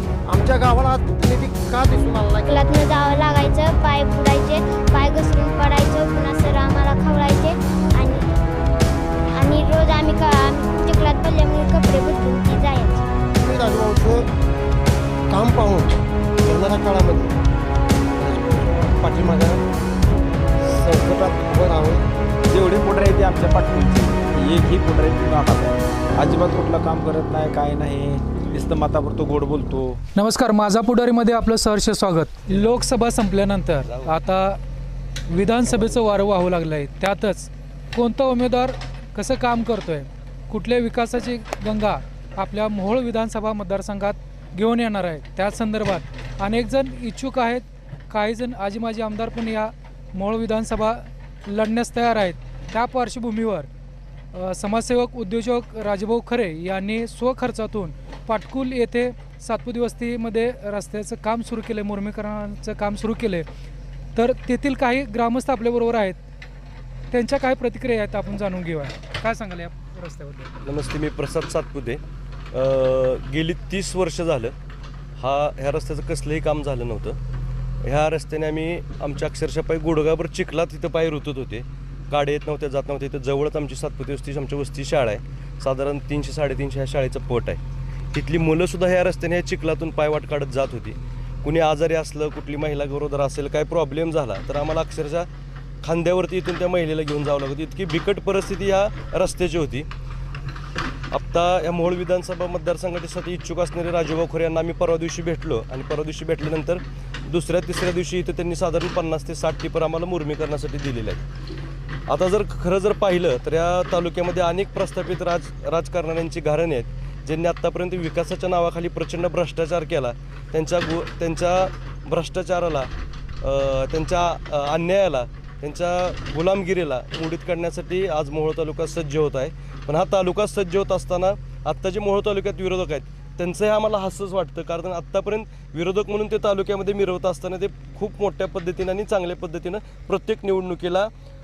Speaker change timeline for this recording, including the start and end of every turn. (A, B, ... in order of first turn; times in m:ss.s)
0:00.3-0:02.6 A
0:02.5-0:08.3 B
0:09.3-0:13.1 B
0:13.4-0:14.3 A
0:15.3-0:17.4 A
0:18.2-0:19.6 A
0:20.6-0:22.0 A
0:22.5-0:30.0 C
0:30.1-0:34.6 D
0:35.3-0:53.7 D
0:54.3-1:03.4 D
1:04.2-1:06.2 D
1:07.1-1:10.5 D
1:10.6-1:12.0 E
1:12.5-1:14.5 E
1:15.2-1:17.2 E
1:17.8-1:27.6 E
1:28.1-1:35.3 E
1:35.8-1:39.8 E
1:41.1-1:51.2 E
1:52.1-2:02.9 E
2:03.4-2:21.1 E